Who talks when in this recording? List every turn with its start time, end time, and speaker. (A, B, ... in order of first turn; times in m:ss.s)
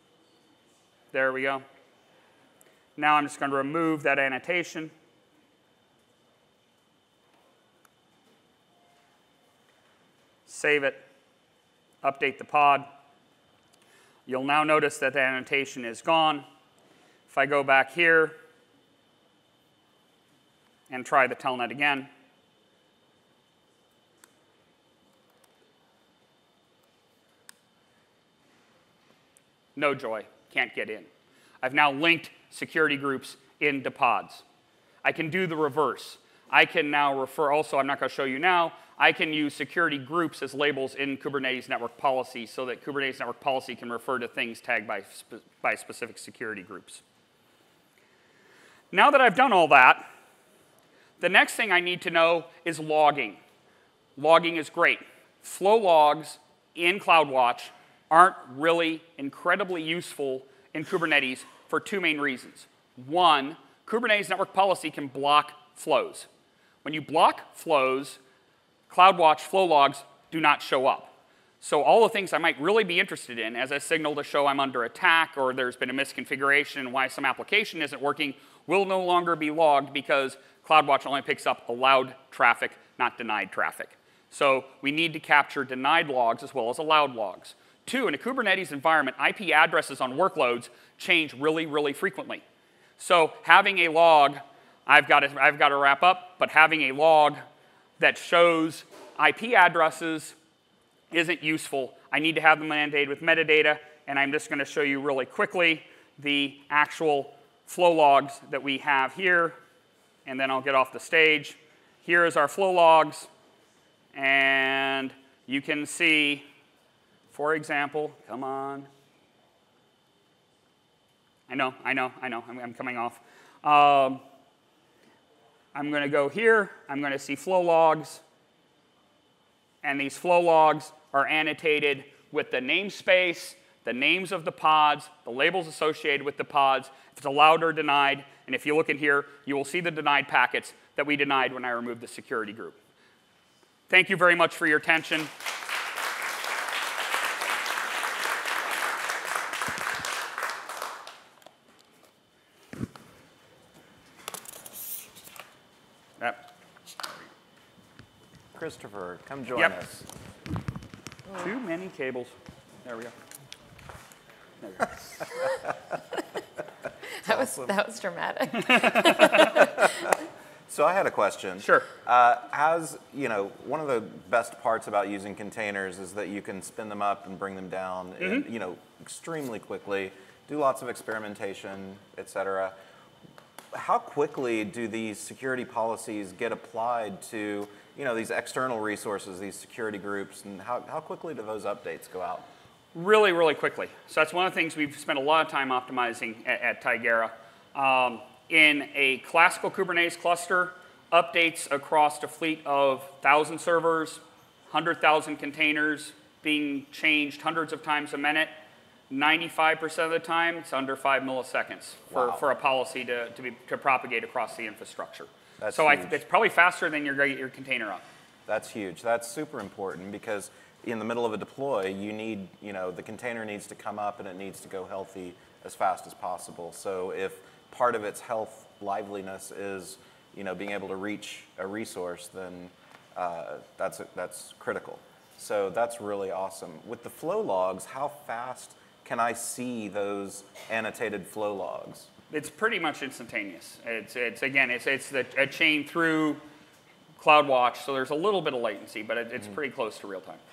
0:01.1-0:01.6 A
0:03.0-0:04.9 A
0:10.4-0:11.0 A
0:12.0-0:12.8 A
0:14.3-0:16.4 A
0:17.3-0:18.4 A
0:20.9-0:22.1 A
0:29.7-0:31.1 A
0:31.6-0:34.4 A
0:35.0-0:47.0 A
0:48.9-0:50.1 A
0:51.2-0:53.4 A
0:54.2-1:06.3 A
1:06.8-1:08.2 A
1:08.9-1:32.4 A
1:33.0-1:37.4 A
1:38.0-1:40.4 A
1:41.1-1:49.6 A
1:50.2-1:53.3 A
1:54.1-1:56.4 A
1:57.3-1:58.9 A
2:01.5-2:04.2 A
2:05.7-2:08.2 A
2:09.8-2:22.8 A
2:23.9-2:25.3 A
2:36.2-2:36.4 A
2:38.5-2:40.1 B
2:41.3-2:43.1 A
2:44.6-2:45.3 A
2:47.2-2:49.8 C
2:47.2-2:47.8 B
2:48.5-2:49.8 A
2:49.4-2:50.1 B
2:50.7-3:02.7 B
2:51.6-2:51.9 A
2:58.2-2:58.4 A
3:03.7-3:12.4 B
3:12.9-3:28.5 A
3:29.1-3:38.0 A
3:32.1-3:32.4 B
3:35.6-3:36.2 B
3:38.5-4:02.1 B
4:02.3-4:06.4 A
4:07.2-4:10.4 A